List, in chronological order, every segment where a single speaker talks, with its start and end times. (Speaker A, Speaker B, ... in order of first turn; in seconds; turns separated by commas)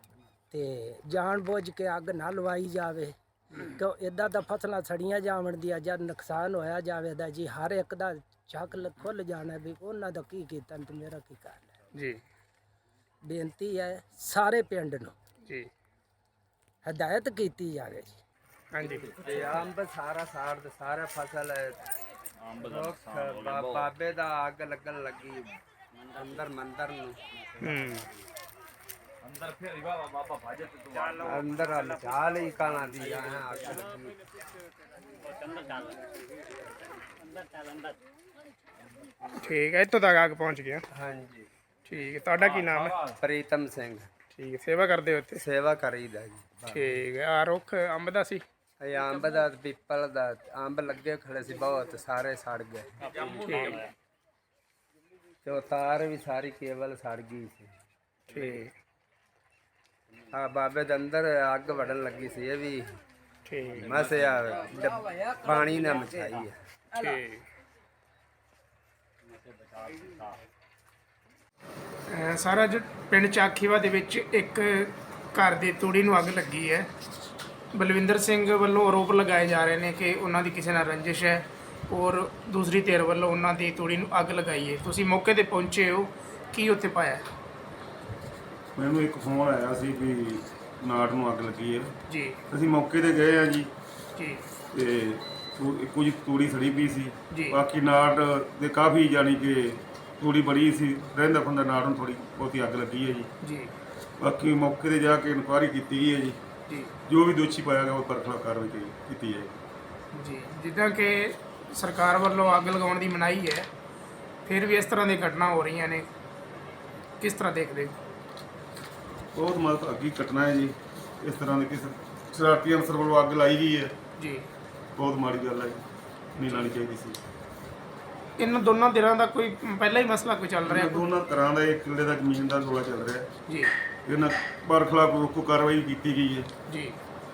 Speaker A: 0.5-11.7, Speaker B: 11.9-12.2, Speaker A: 13.3-15.1, Speaker B: 15.4-15.7, Speaker A: 16.8-18.2, Speaker B: 18.7-19.2, Speaker C: 19.1-21.8, Speaker C: 22.6-25.6, Speaker C: 26.1-27.2, Speaker B: 27.6-28.1, Speaker C: 31.1-34.2, Speaker B: 39.3-40.8, Speaker C: 40.9-41.5, Speaker B: 41.8-43.1, Speaker C: 43.0-44.1, Speaker B: 44.3-45.4, Speaker C: 45.3-47.0, Speaker B: 46.7-48.5, Speaker C: 48.8-53.5, Speaker B: 53.4-53.9, Speaker C: 55.4-57.7, Speaker B: 58.3-58.7, Speaker C: 60.3-62.9, Speaker B: 63.4-63.9, Speaker C: 63.7-66.6, Speaker B: 66.9-67.4, Speaker B: 72.1-76.9, Speaker B: 77.7-87.2, Speaker D: 88.7-91.9, Speaker B: 92.1-92.4, Speaker D: 92.5-93.7, Speaker B: 94.2-94.4, Speaker D: 94.7-103.3, Speaker B: 97.3-97.6, Speaker B: 103.4-103.7, Speaker D: 104.2-106.4, Speaker D: 107.0-109.5, Speaker B: 110.1-113.7, Speaker B: 114.4-116.1, Speaker B: 117.2-118.0, Speaker D: 119.3-123.9, Speaker B: 124.2-124.5, Speaker D: 124.9-125.8, Speaker D: 126.4-127.2, Speaker B: 126.4-126.8, Speaker B: 128.4-131.1, Speaker D: 130.6-133.3, Speaker B: 133.5-133.7, Speaker D: 134.0-136.5, Speaker B: 136.7-137.0